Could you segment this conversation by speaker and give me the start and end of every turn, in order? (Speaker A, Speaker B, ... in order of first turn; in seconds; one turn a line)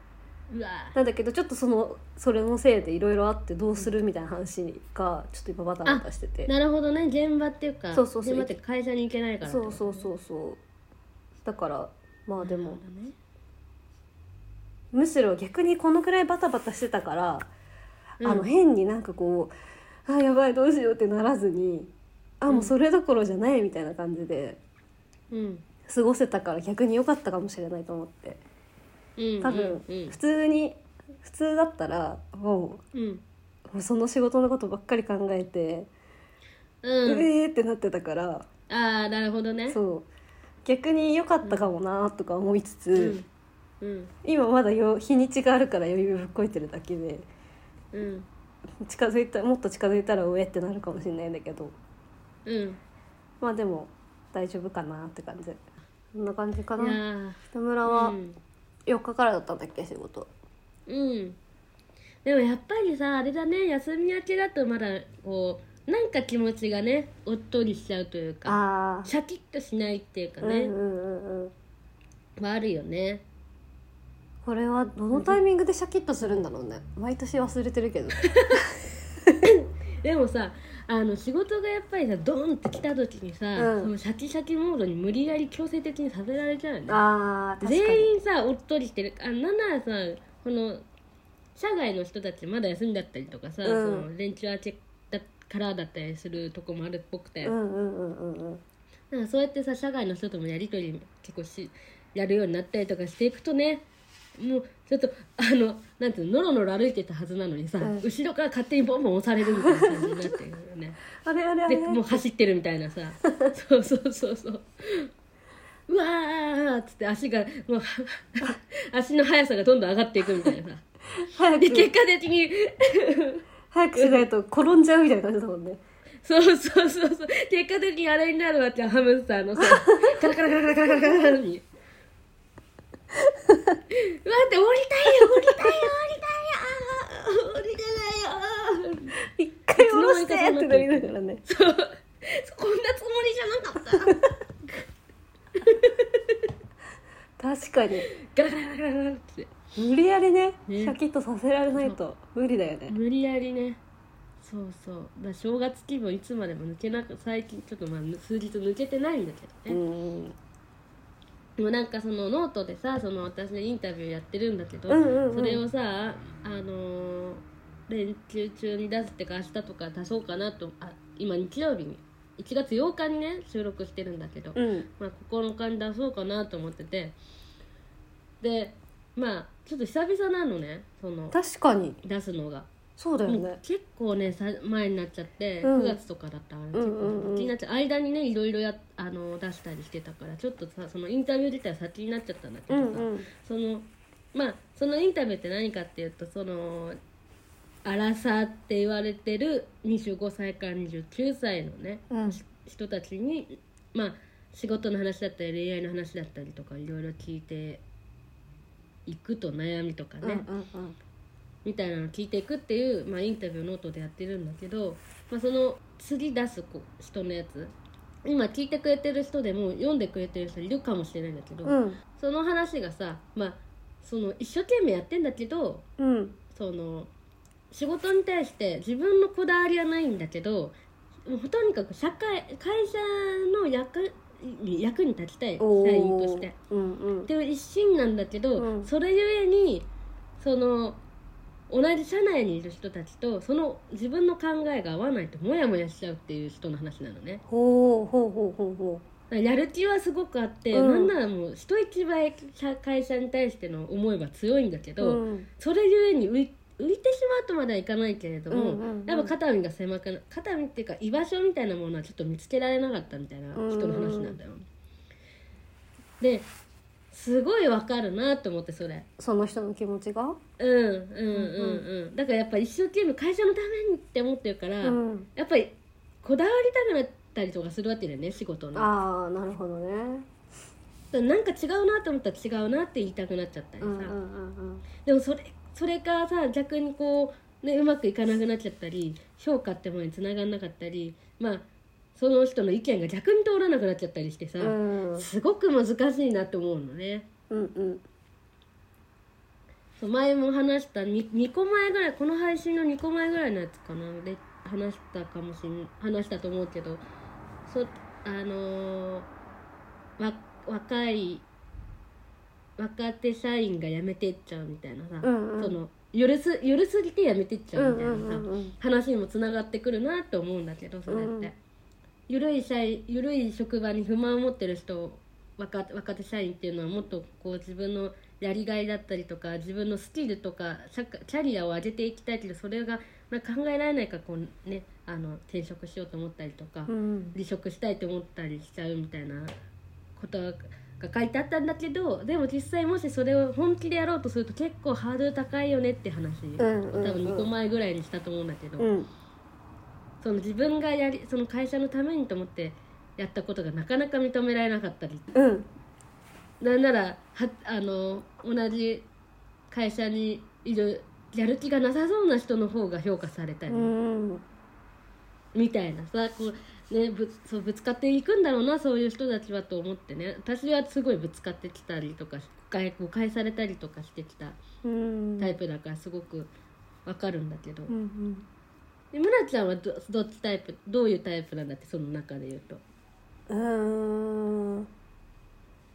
Speaker A: 0.5-1.0
Speaker B: 0.9-6.5
Speaker A: 5.8-10.1
Speaker B: 7.9-8.6
Speaker B: 9.4-10.6
Speaker B: 11.4-12.8
Speaker A: 12.4-13.2
Speaker B: 14.9-17.5
Speaker A: 18.2-18.5
Speaker B: 18.2-19.5
Speaker B: 20.1-24.6
Speaker A: 22.5-22.7
Speaker A: 25.3-25.6
Speaker B: 25.9-28.4
Speaker A: 29.2-30.2
Speaker B: 29.4-32.8
Speaker A: 32.9-33.2
Speaker B: 33.7-35.9
Speaker A: 36.8-37.3
Speaker B: 37.0-38.5
Speaker A: 38.7-39.8
Speaker B: 39.7-40.1
Speaker B: 40.6-43.2
Speaker A: 41.4-41.7
Speaker A: 43.0-43.3
Speaker A: 43.8-44.1
Speaker B: 44.2-47.3
Speaker A: 47.9-48.3
Speaker B: 48.8-51.7
Speaker A: 52.5-52.8
Speaker B: 53.4-55.6
Speaker B: 56.1-57.0
Speaker A: 56.8-58.4
Speaker B: 57.5-58.2
Speaker B: 58.9-60.3
Speaker A: 60.9-61.4
Speaker A: 62.2-70.7
Speaker B: 68.5-69.1
Speaker B: 70.4-71.5
Speaker A: 72.4-73.2
Speaker B: 74.4-79.4
Speaker A: 75.1-75.4
Speaker A: 78.2-78.6
Speaker A: 79.4-87.0
Speaker B: 83.5-83.9
Speaker B: 86.9-88.1
Speaker A: 87.6-90.8
Speaker A: 91.5-97.5
Speaker B: 93.6-94.1
Speaker B: 97.4-98.6
Speaker A: 99.1-103.8
Speaker A: 104.4-111.0
Speaker B: 109.5-110.2
Speaker B: 111.2-112.2
Speaker A: 111.7-115.1
Speaker A: 115.9-120.8
Speaker B: 121.2-121.9
Speaker A: 121.6-123.4
Speaker B: 123.7-125.8
Speaker A: 124.0-124.2
Speaker A: 126.2-131.6
Speaker B: 129.6-130.2
Speaker B: 133.3-133.8
Speaker A: 133.9-139.1
Speaker B: 135.3-135.7
Speaker B: 139.3-141.4
Speaker A: 139.8-144.8
Speaker A: 145.6-146.4
Speaker B: 147.4-148.1
Speaker A: 148.0-149.5
Speaker B: 149.8-152.9
Speaker A: 150.7-150.9
Speaker A: 152.9-153.8
Speaker A: 154.4-159.8
Speaker B: 159.7-160.3
Speaker A: 161.6-177.2
Speaker B: 164.9-165.6
Speaker B: 174.5-174.9
Speaker A: 178.4-181.3
Speaker B: 181.3-182.0
Speaker A: 182.0-182.7
Speaker B: 183.0-183.6
Speaker A: 183.2-197.0
Speaker B: 185.6-186.0
Speaker B: 186.7-187.5
Speaker B: 192.7-193.3
Speaker A: 197.8-207.8
Speaker B: 202.1-202.4
Speaker A: 209.1-210.4
Speaker B: 210.2-210.9
Speaker A: 211.6-217.7
Speaker A: 218.2-225.8
Speaker B: 221.6-222.0
Speaker B: 226.0-226.3
Speaker A: 226.5-227.1
Speaker A: 227.7-236.5
Speaker B: 235.6-237.3
Speaker A: 237.3-239.9
Speaker B: 238.6-238.9
Speaker A: 240.4-241.0
Speaker A: 241.7-247.4
Speaker B: 247.5-249.0
Speaker A: 249.3-264.6
Speaker B: 250.7-251.1
Speaker B: 255.0-255.5
Speaker B: 258.5-259.3
Speaker B: 263.5-264.4
Speaker A: 266.2-266.5
Speaker A: 267.1-269.1
Speaker B: 269.2-270.4
Speaker A: 270.6-278.9
Speaker B: 271.3-271.8
Speaker B: 274.8-275.3
Speaker B: 278.7-280.3
Speaker A: 281.1-284.1
Speaker B: 283.8-284.8
Speaker A: 285.0-297.3
Speaker B: 294.6-295.3
Speaker B: 297.5-298.0
Speaker A: 300.0-307.0
Speaker A: 307.6-309.3
Speaker A: 310.2-311.4
Speaker A: 312.8-321.6
Speaker B: 315.2-315.8
Speaker B: 317.8-318.7
Speaker B: 321.1-321.5
Speaker A: 322.3-339.5
Speaker B: 336.9-337.4
Speaker A: 340.1-348.9
Speaker B: 346.6-347.5
Speaker B: 348.8-349.1
Speaker A: 350.2-355.3
Speaker B: 355.3-355.7
Speaker A: 356.6-359.1
Speaker A: 359.7-363.9
Speaker B: 363.7-364.4
Speaker A: 365.5-374.6
Speaker B: 374.8-375.5
Speaker A: 375.4-376.5
Speaker A: 377.1-377.9
Speaker B: 377.9-378.4
Speaker A: 379.1-382.8
Speaker B: 383.5-384.9